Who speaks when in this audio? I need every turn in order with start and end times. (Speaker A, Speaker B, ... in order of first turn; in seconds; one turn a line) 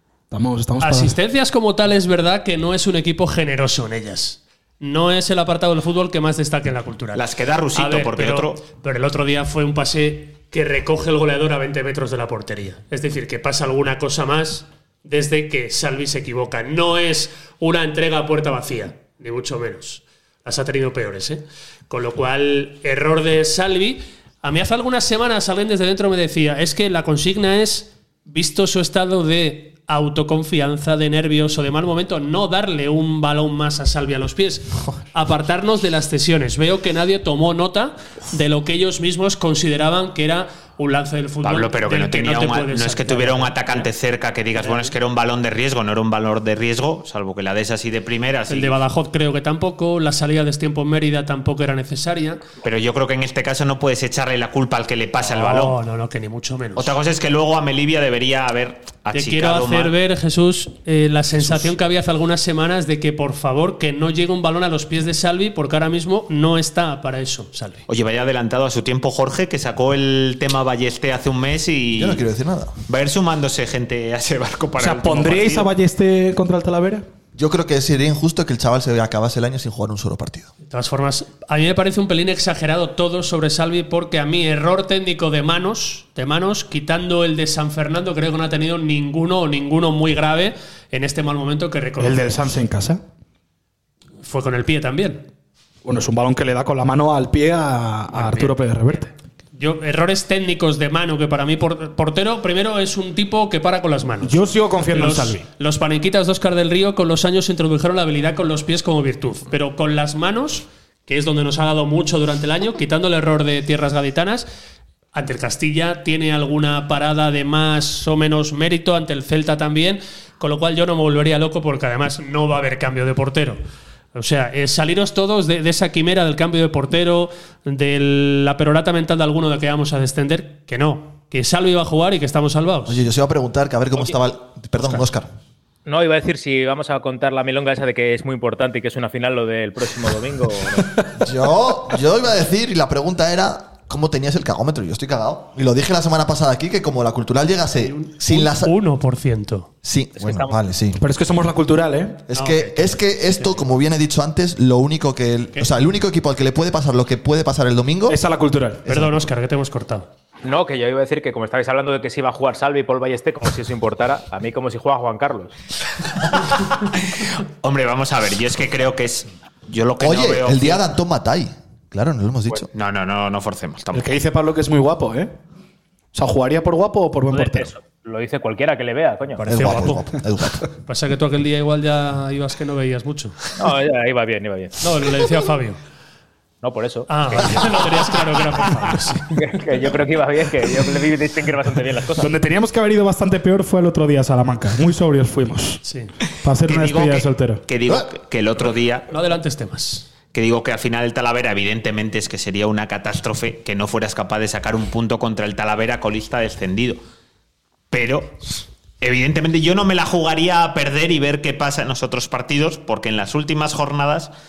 Speaker A: 0.3-1.1
Speaker B: 0.8-43.9
Speaker C: 7.1-8.6
Speaker C: 41.4-48.8
Speaker B: 44.6-44.9
Speaker B: 48.5-52.4
Speaker C: 52.6-55.7
Speaker B: 55.3-56.9
Speaker C: 56.8-59.9
Speaker B: 59.1-67.8
Speaker C: 67.9-72.3
Speaker D: 71.9-72.8
Speaker C: 72.9-75.7
Speaker A: 74.8-77.0
Speaker D: 77.3-80.5
Speaker B: 80.6-92.4
Speaker A: 92.0-93.0
Speaker B: 94.2-95.3
Speaker A: 95.8-99.1
Speaker B: 98.1-99.0
Speaker B: 99.5-114.5
Speaker A: 104.2-105.4
Speaker B: 115.1-123.6
Speaker B: 124.1-133.0
Speaker D: 132.8-135.3
Speaker E: 135.8-141.0
Speaker D: 141.2-148.7
Speaker B: 147.8-149.7
Speaker D: 149.8-151.0
Speaker E: 150.2-150.5
Speaker A: 151.0-152.2
Speaker D: 152.3-158.2
Speaker B: 152.3-153.6
Speaker A: 158.1-158.8
Speaker D: 158.9-159.2
Speaker B: 158.9-160.1
Speaker E: 160.4-165.5
Speaker C: 166.5-170.8
Speaker D: 170.0-172.7
Speaker C: 172.7-174.2
Speaker A: 173.9-175.3
Speaker A: 176.1-177.7
Speaker E: 177.3-179.5
Speaker B: 179.4-180.1
Speaker D: 179.5-180.6
Speaker B: 180.8-183.4
Speaker E: 183.6-184.8
Speaker B: 184.8-185.8
Speaker E: 186.6-188.0
Speaker B: 187.1-189.4
Speaker E: 189.3-192.3
Speaker A: 192.2-195.8
Speaker B: 195.8-196.1
Speaker A: 196.4-197.6
Speaker C: 196.6-199.1
Speaker B: 199.1-200.1
Speaker C: 200.3-207.0
Speaker C: 207.9-208.4
Speaker C: 209.0-214.3